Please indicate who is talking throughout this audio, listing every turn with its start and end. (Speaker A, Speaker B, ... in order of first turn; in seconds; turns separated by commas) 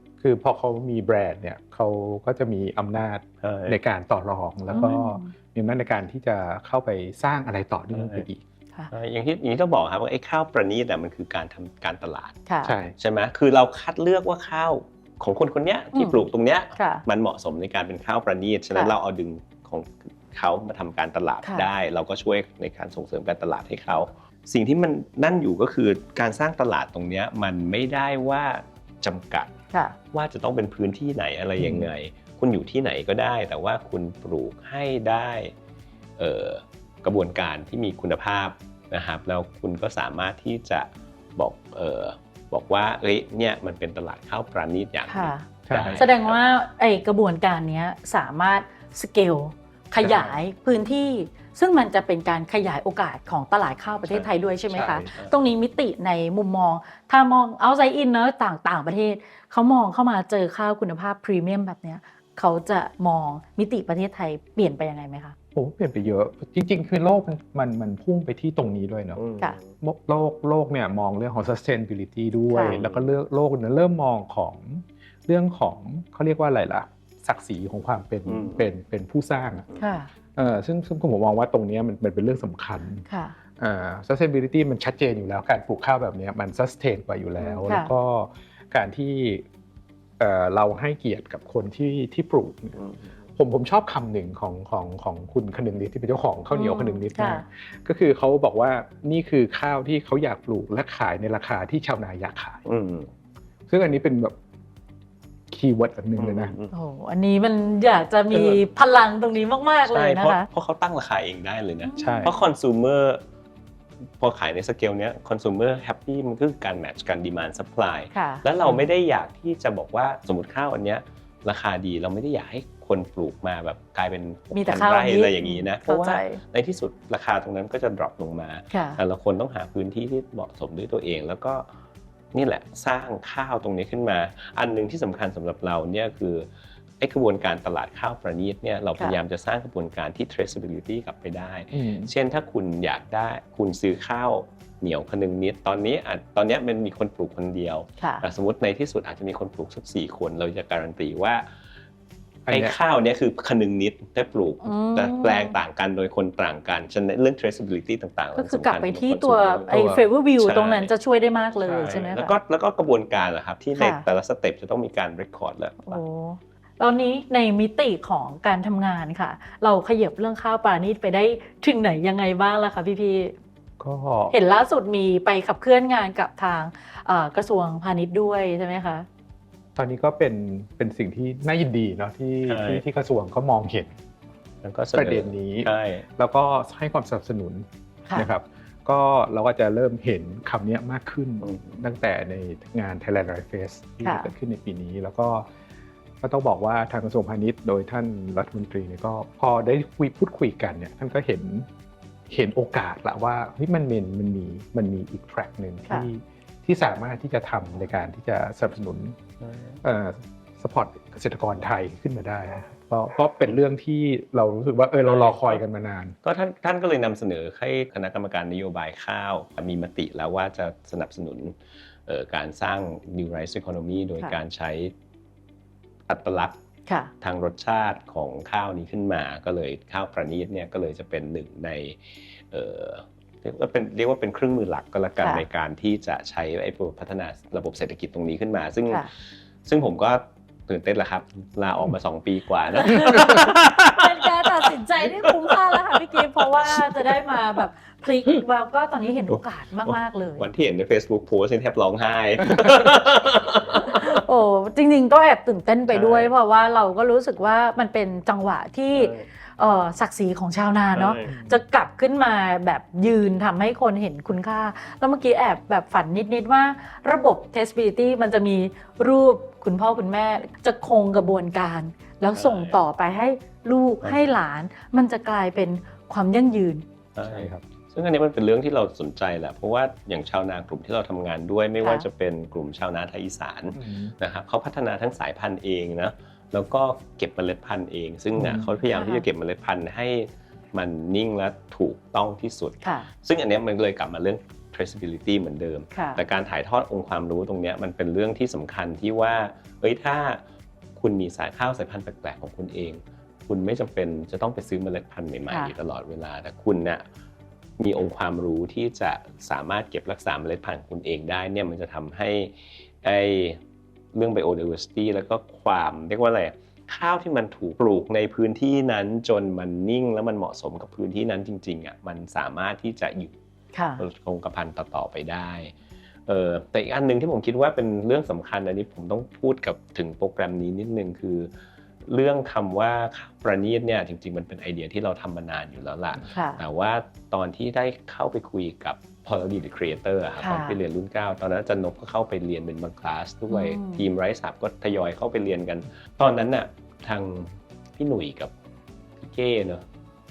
Speaker A: 0.2-8.4, Speaker B: 3.4-3.8, Speaker C: 4.7-5.3, Speaker B: 7.9-8.3, Speaker B: 8.9-12.3, Speaker C: 12.5-12.8, Speaker A: 12.6-12.9, Speaker B: 13.0-29.5, Speaker C: 15.9-16.2, Speaker C: 16.8-17.0, Speaker C: 21.4-21.7, Speaker B: 30.1-35.5, Speaker A: 31.6-31.9, Speaker B: 36.2-46.4, Speaker C: 45.1-65.3, Speaker A: 45.7-46.0, Speaker A: 50.0-50.4, Speaker B: 54.0-55.4, Speaker A: 54.7-55.2, Speaker A: 65.5-69.2, Speaker B: 69.2-69.7, Speaker A: 69.8-79.7, Speaker C: 72.5-72.8, Speaker B: 72.6-73.1, Speaker B: 78.3-78.7, Speaker C: 79.8-80.1, Speaker A: 80.4-83.1, Speaker C: 83.1-83.4, Speaker A: 83.6-89.5, Speaker C: 87.4-87.9, Speaker A: 90.2-92.8, Speaker B: 92.8-93.1, Speaker A: 93.4-102.6, Speaker C: 96.5-97.5, Speaker B: 102.7-103.1, Speaker A: 103.7-104.3, Speaker A: 105.5-106.6, Speaker B: 106.2-106.7, Speaker C: 106.7-110.5, Speaker B: 108.3-108.6, Speaker B: 109.8-113.2, Speaker C: 111.8-112.3, Speaker A: 112.0-112.3, Speaker B: 114.2-131.7, Speaker C: 118.1-118.8, Speaker C: 124.5-126.4, Speaker C: 128.7-129.0, Speaker B: 132.3-136.5, Speaker B: 137.0-151.4, Speaker A: 141.7-142.1, Speaker C: 148.0-148.2, Speaker A: 152.5-152.8, Speaker B: 152.5-160.9, Speaker C: 154.6-155.6, Speaker C: 158.3-162.3, Speaker A: 159.7-160.0, Speaker B: 161.7-166.0, Speaker A: 161.7-162.0, Speaker C: 163.8-164.1, Speaker C: 165.9-173.4, Speaker A: 173.8-174.3, Speaker C: 174.3-179.1, Speaker A: 179.8-183.9, Speaker B: 182.4-182.8, Speaker B: 184.6-186.1, Speaker A: 185.0-195.5, Speaker B: 191.4-191.8, Speaker C: 194.0-194.3, Speaker A: 196.2-201.7, Speaker A: 202.3-209.2, Speaker B: 209.4-209.8, Speaker A: 209.8-216.2, Speaker B: 215.1-215.6, Speaker B: 216.2-224.9, Speaker B: 226.1-226.6, Speaker C: 226.9-227.1, Speaker B: 227.2-247.4, Speaker C: 235.2-235.4, Speaker C: 242.9-250.5, Speaker B: 249.8-254.2, Speaker C: 253.8-276.8, Speaker B: 255.9-256.3, Speaker B: 258.9-259.3, Speaker B: 260.9-261.3, Speaker A: 261.2-261.6, Speaker B: 272.3-272.8, Speaker B: 274.0-274.3, Speaker B: 277.1-300.4, Speaker A: 277.2-277.6, Speaker C: 281.8-282.1, Speaker A: 283.7-284.1, Speaker A: 288.4-288.7, Speaker C: 288.9-289.3, Speaker C: 292.8-293.1, Speaker C: 295.9-296.2, Speaker B: 301.0-307.0, Speaker C: 305.5-305.7, Speaker B: 307.8-313.6, Speaker B: 314.1-323.3, Speaker C: 323.7-324.0, Speaker B: 324.0-325.7, Speaker B: 326.3-331.5, Speaker B: 332.1-348.5, Speaker C: 336.2-336.6, Speaker C: 340.4-340.8, Speaker C: 343.5-344.1, Speaker B: 349.2-349.8